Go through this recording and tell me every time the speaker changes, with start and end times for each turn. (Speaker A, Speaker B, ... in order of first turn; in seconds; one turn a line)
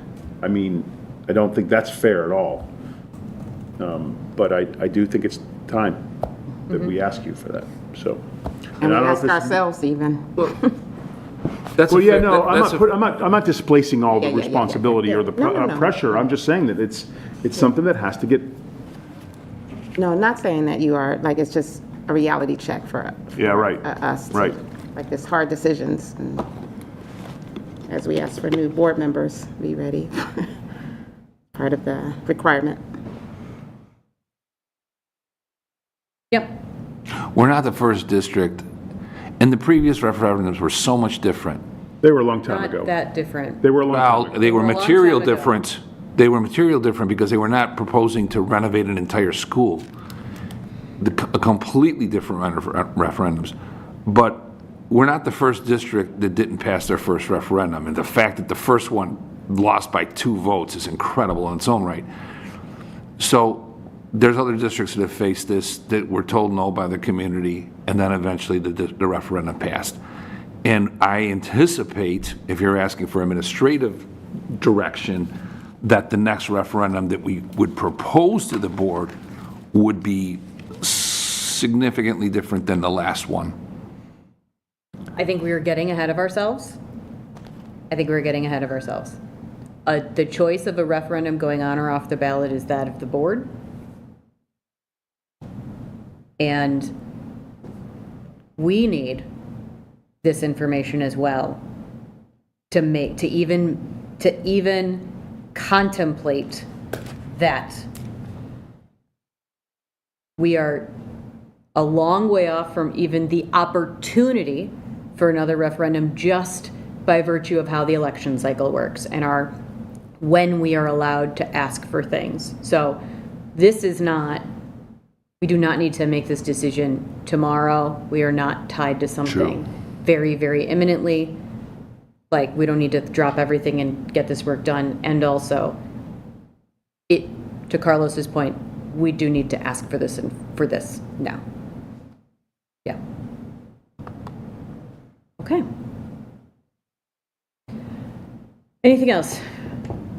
Speaker A: 0.4-2.7
Speaker A: 3.8-6.0
Speaker A: 6.7-8.2
Speaker A: 8.8-9.6
Speaker B: 8.8-10.7
Speaker C: 11.8-12.8
Speaker A: 11.8-18.5
Speaker B: 14.1-16.1
Speaker B: 19.9-26.4
Speaker A: 23.4-24.6
Speaker B: 27.9-30.5
Speaker B: 31.5-32.8
Speaker C: 37.3-38.6
Speaker C: 39.4-41.6
Speaker A: 42.0-42.9
Speaker D: 42.5-43.6
Speaker A: 43.6-44.4
Speaker C: 43.9-49.8
Speaker D: 44.4-45.5
Speaker C: 51.0-53.5
Speaker C: 54.0-62.0
Speaker C: 63.2-70.0
Speaker C: 70.6-79.1
Speaker C: 79.7-83.5
Speaker D: 85.2-86.8
Speaker D: 87.9-89.2
Speaker D: 89.8-93.5
Speaker D: 96.4-96.9
Speaker D: 98.6-99.2
Speaker D: 100.2-101.6
Speaker D: 102.7-106.7
Speaker D: 107.3-107.9
Speaker D: 110.4-110.9
Speaker D: 111.7-119.5
Speaker D: 120.2-123.0
Speaker D: 123.5-124.4
Speaker D: 125.4-131.4
Speaker C: 129.2-129.5
Speaker D: 132.3-135.8
Speaker D: 137.1-141.4
Speaker D: 145.4-145.6
Speaker D: 148.8-149.4